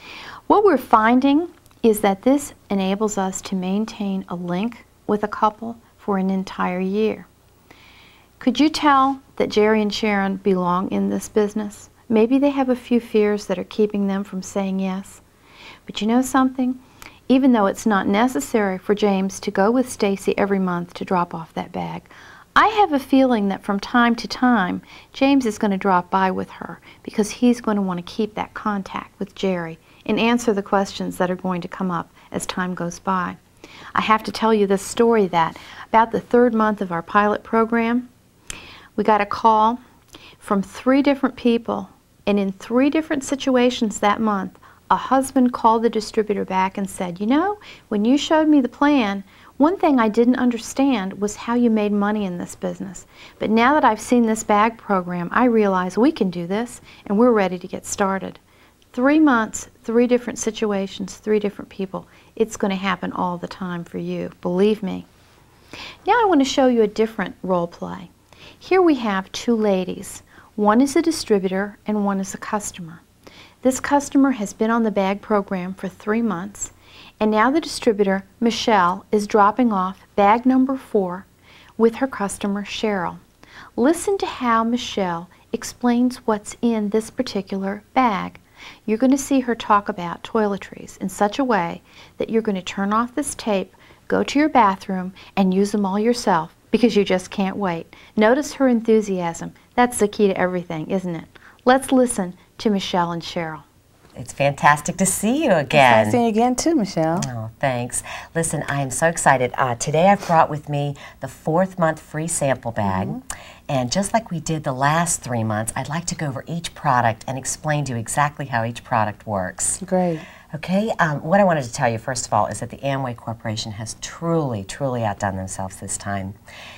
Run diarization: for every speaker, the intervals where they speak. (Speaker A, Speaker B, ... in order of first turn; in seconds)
Speaker A: 0.5-7.3, 8.4-15.2, 15.9-33.4, 34.0-38.1, 39.0-39.8, 40.4-58.4, 58.9-65.1, 66.0-73.0, 73.6-81.3, 81.8-83.2, 83.8-103.7
Speaker B: 104.2-106.2, 107.2-119.8, 120.5-126.4
Speaker C: 105.7-107.3, 112.8-113.2, 119.8-120.3